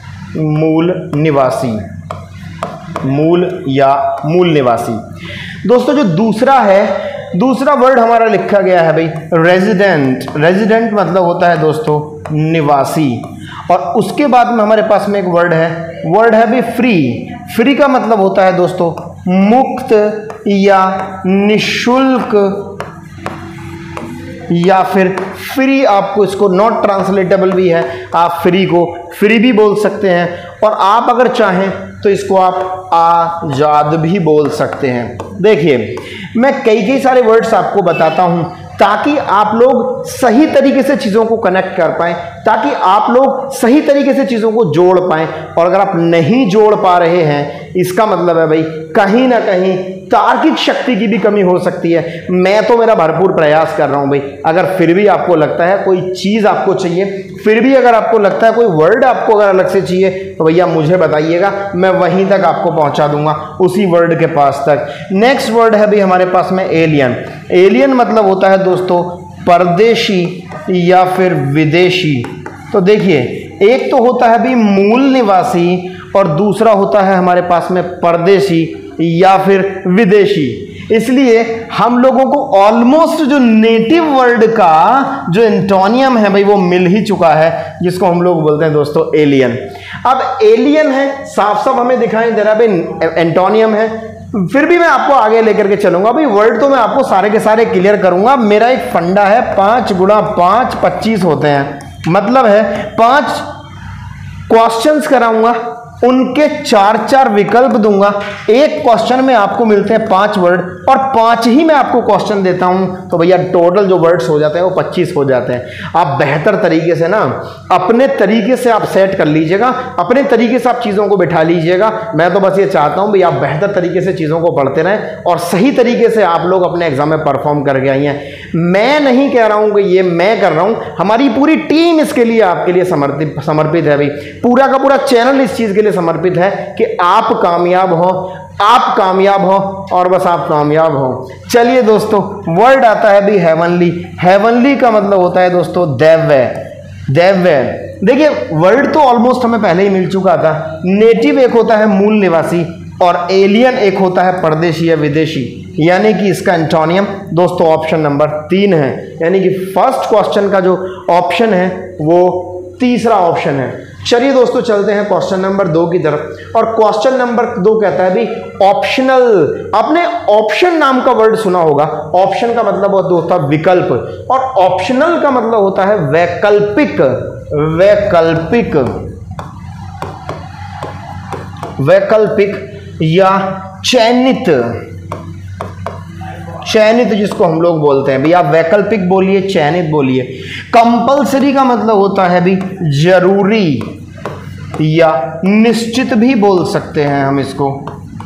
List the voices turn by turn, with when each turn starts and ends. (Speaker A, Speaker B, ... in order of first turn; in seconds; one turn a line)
Speaker A: 0.3-1.8
Speaker A: 3.0-5.0
Speaker A: 5.6-22.8
Speaker A: 24.5-103.5
Speaker A: 104.5-179.1
Speaker A: 181.8-184.8
Speaker A: 186.6-193.9
Speaker A: 194.8-197.8